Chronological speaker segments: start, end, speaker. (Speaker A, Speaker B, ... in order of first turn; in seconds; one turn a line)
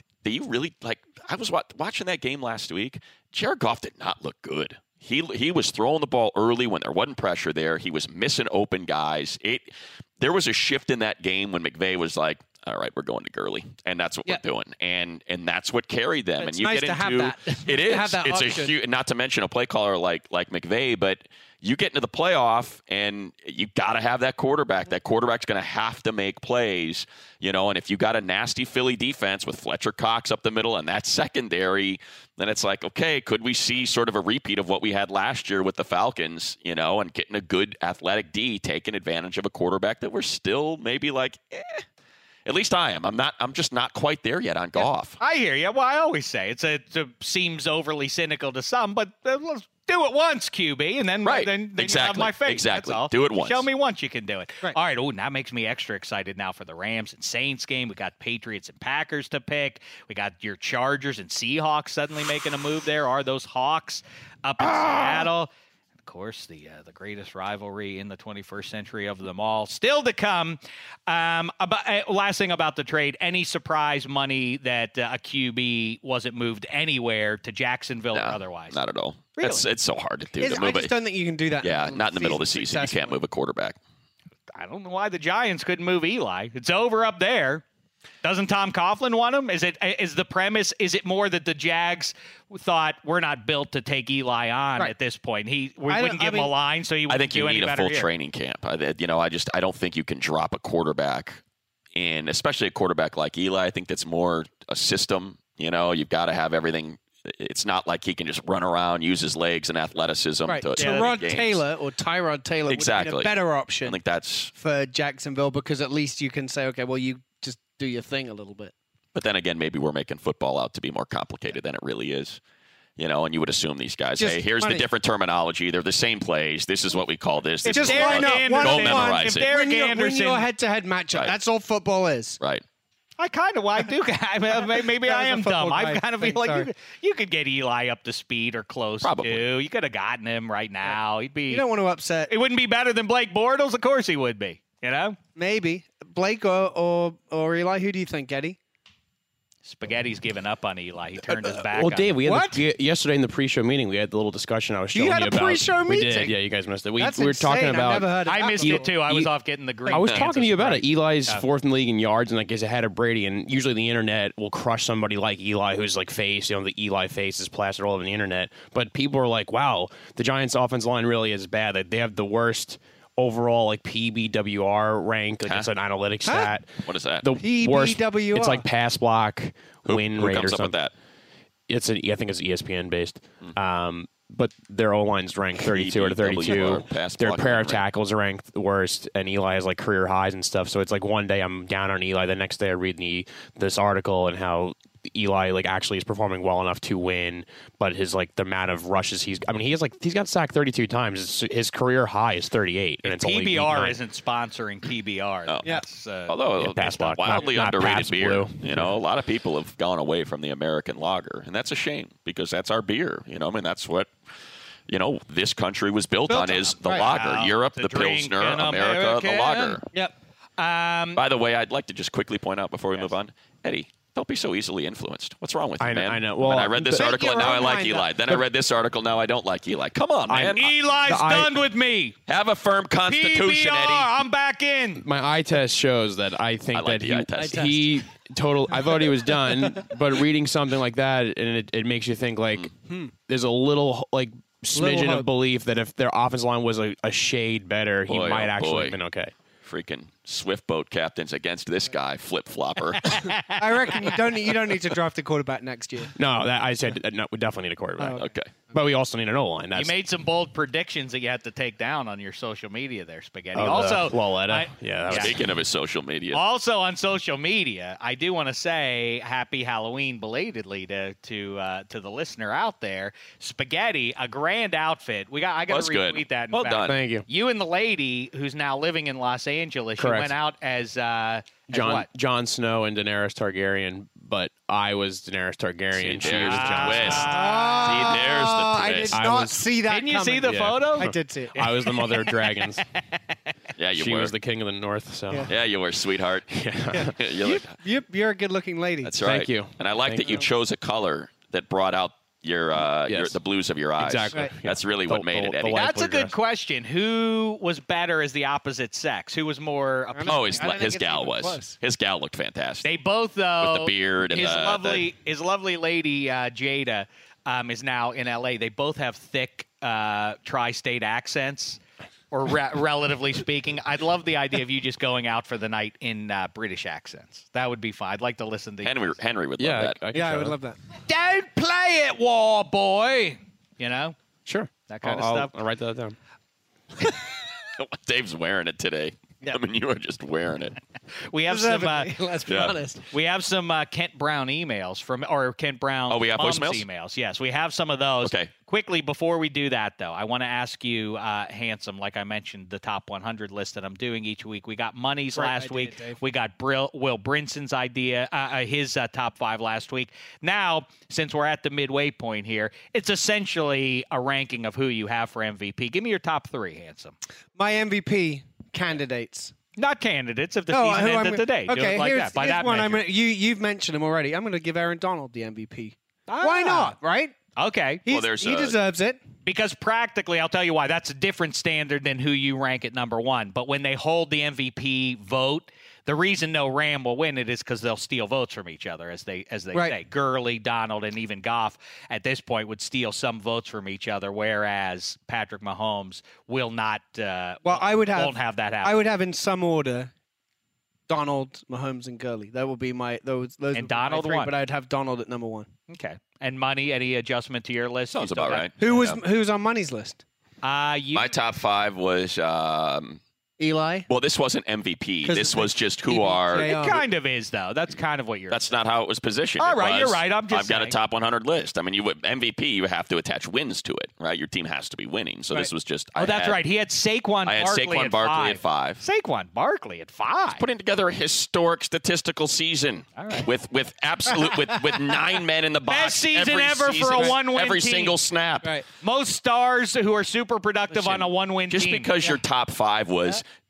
Speaker A: 0.2-41.8
Speaker B: 16.4-18.7
Speaker A: 42.5-45.2
Speaker C: 44.8-65.5
Speaker A: 51.2-53.7
Speaker A: 64.6-65.3
Speaker C: 66.0-78.8
Speaker A: 78.1-80.9
Speaker C: 79.4-79.6
Speaker B: 80.4-83.2
Speaker A: 81.6-83.8
Speaker C: 84.5-87.6
Speaker C: 88.2-98.1
Speaker B: 95.9-96.5
Speaker A: 97.1-101.4
Speaker A: 102.0-111.6
Speaker B: 110.5-114.0
Speaker C: 110.8-111.1
Speaker A: 112.7-114.5
Speaker B: 114.5-118.7
Speaker A: 119.1-122.4
Speaker A: 123.0-129.5
Speaker B: 124.2-124.9
Speaker C: 127.6-130.5
Speaker B: 127.6-132.4
Speaker C: 133.2-141.6
Speaker B: 135.0-136.7
Speaker A: 139.0-139.5
Speaker B: 141.5-142.3
Speaker C: 142.3-145.2
Speaker B: 145.4-148.6
Speaker C: 149.6-152.1
Speaker D: 151.6-159.3
Speaker B: 152.2-152.6
Speaker B: 154.9-156.4
Speaker B: 157.0-158.9
Speaker C: 158.2-161.4
Speaker D: 159.9-180.8
Speaker A: 160.0-160.2
Speaker B: 176.2-176.5
Speaker A: 176.8-177.3
Speaker B: 177.4-178.6
Speaker A: 179.9-180.9
Speaker D: 181.7-204.0
Speaker A: 185.6-187.8
Speaker C: 203.0-206.4
Speaker A: 206.3-214.1
Speaker D: 206.6-209.0
Speaker A: 214.9-219.8
Speaker B: 216.3-217.1
Speaker C: 217.0-219.8
Speaker C: 220.6-221.2
Speaker A: 221.2-230.7
Speaker D: 225.8-227.2
Speaker B: 226.8-228.1
Speaker D: 230.3-231.5
Speaker C: 230.6-232.2
Speaker A: 232.3-234.1
Speaker C: 233.1-235.0
Speaker D: 235.0-249.3
Speaker A: 236.7-237.9
Speaker B: 237.4-237.8
Speaker B: 238.8-239.1
Speaker B: 244.8-245.2
Speaker A: 248.1-249.0
Speaker A: 249.6-253.3
Speaker C: 253.0-254.1
Speaker B: 253.6-256.1
Speaker D: 256.1-259.9
Speaker B: 258.0-258.2
Speaker A: 258.1-258.5
Speaker C: 259.7-265.3
Speaker D: 263.6-265.5
Speaker A: 265.1-266.4
Speaker C: 266.3-282.1
Speaker A: 275.7-276.9
Speaker D: 276.9-277.2
Speaker D: 280.0-280.4
Speaker D: 281.7-287.3
Speaker A: 285.9-289.2
Speaker C: 286.4-288.1
Speaker B: 287.3-291.7
Speaker D: 289.1-289.7
Speaker C: 289.9-291.1
Speaker D: 290.4-292.8
Speaker C: 291.6-292.3
Speaker A: 293.8-294.3
Speaker D: 293.9-295.5
Speaker A: 295.5-296.6
Speaker D: 296.5-297.1
Speaker B: 296.9-299.1
Speaker A: 297.1-297.7
Speaker A: 299.0-305.9
Speaker D: 299.2-300.4
Speaker D: 303.0-303.4
Speaker D: 304.0-306.3
Speaker C: 305.7-310.7
Speaker B: 310.1-311.7
Speaker A: 310.3-312.9
Speaker C: 312.8-321.8
Speaker A: 313.6-315.1
Speaker C: 322.3-329.1
Speaker A: 328.8-330.0
Speaker D: 329.6-330.6
Speaker B: 330.1-330.8
Speaker C: 331.0-334.1
Speaker D: 334.4-336.1
Speaker C: 334.9-335.5
Speaker A: 337.0-340.8
Speaker C: 341.3-342.2
Speaker B: 341.5-343.1
Speaker A: 342.4-342.8
Speaker C: 343.1-367.1
Speaker A: 346.1-346.8
Speaker A: 348.2-348.5
Speaker B: 355.4-356.2
Speaker B: 367.6-369.5
Speaker C: 369.8-373.0
Speaker B: 370.7-377.4
Speaker C: 376.3-377.0
Speaker C: 377.6-378.0
Speaker B: 378.1-379.2
Speaker A: 378.1-378.8
Speaker C: 379.4-399.0
Speaker B: 397.6-400.1
Speaker B: 401.1-405.7
Speaker C: 403.7-404.5
Speaker C: 405.9-408.7
Speaker A: 408.1-409.2
Speaker B: 408.8-410.2
Speaker C: 410.6-411.3
Speaker A: 411.1-413.2
Speaker B: 413.6-414.1
Speaker A: 414.1-416.7
Speaker B: 415.2-417.0
Speaker C: 416.6-418.7
Speaker A: 418.5-426.6
Speaker C: 419.6-421.0
Speaker C: 425.5-430.6
Speaker A: 427.4-429.0
Speaker A: 430.5-438.7
Speaker C: 433.2-433.5
Speaker C: 435.9-438.1
Speaker C: 439.0-442.1
Speaker A: 440.9-443.4